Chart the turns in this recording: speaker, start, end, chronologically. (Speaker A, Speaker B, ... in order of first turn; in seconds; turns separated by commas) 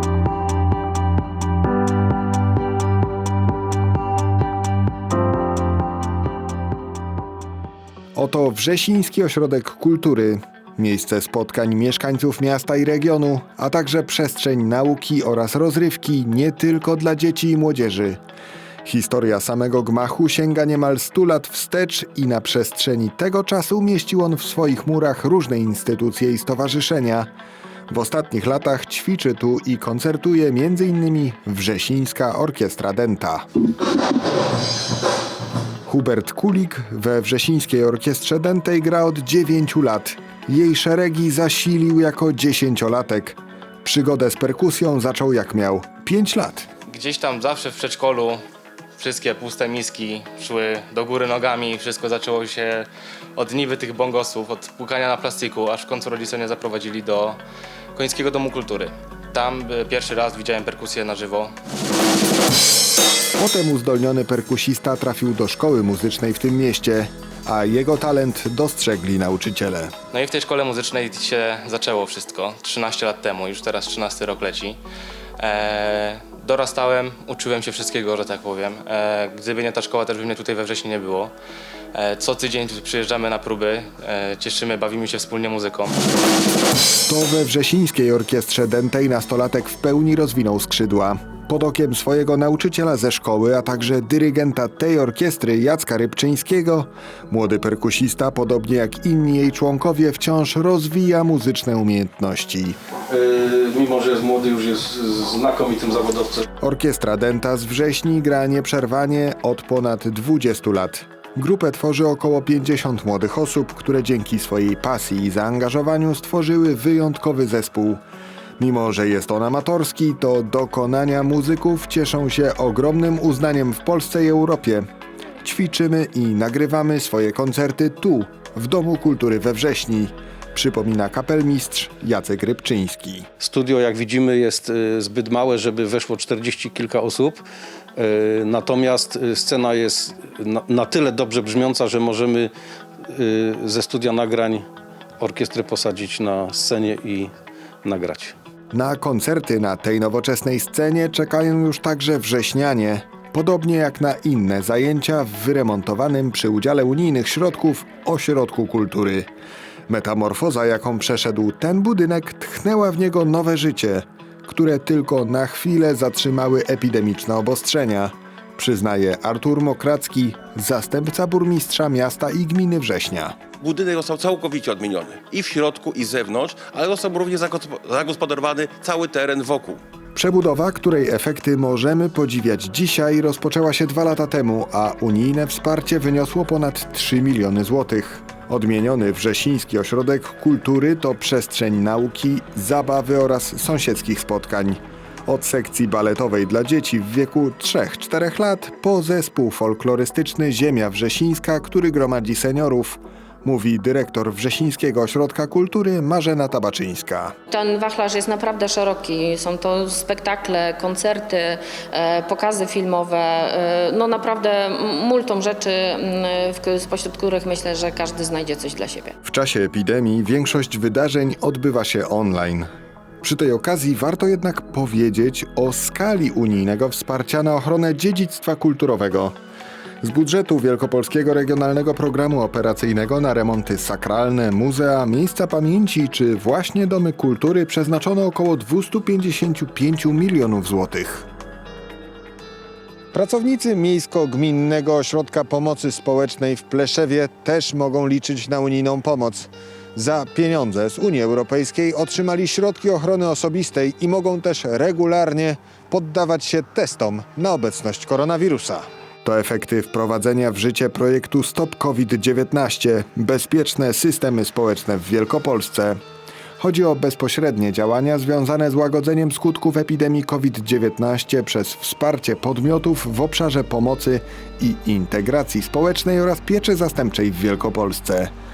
Speaker A: 8.1-18.2, Speaker A: 18.8-27.3, Speaker A: 27.9-33.4, Speaker A: 35.9-46.7, Speaker B: 46.9-48.4, Speaker B: 49.0-57.4, Speaker B: 57.9-61.5, Speaker A: 63.4-69.9, Speaker B: 70.1-74.8, Speaker B: 75.4-81.3, Speaker B: 81.9-85.9, Speaker A: 87.1-102.8, Speaker C: 103.1-106.4, Speaker A: 106.6-118.0, Speaker A: 118.6-124.8, Speaker A: 125.4-133.2, Speaker C: 133.4-137.4, Speaker C: 137.9-142.5, Speaker C: 143.1-144.7, Speaker C: 145.2-147.3, Speaker C: 147.8-148.3, Speaker A: 148.7-159.3, Speaker A: 159.9-173.3, Speaker D: 173.6-179.8, Speaker A: 180.2-207.3, Speaker E: 207.5-219.1, Speaker A: 219.2-222.7, Speaker A: 223.2-229.3, Speaker A: 230.0-241.3, Speaker A: 243.1-266.0, Speaker A: 266.6-278.3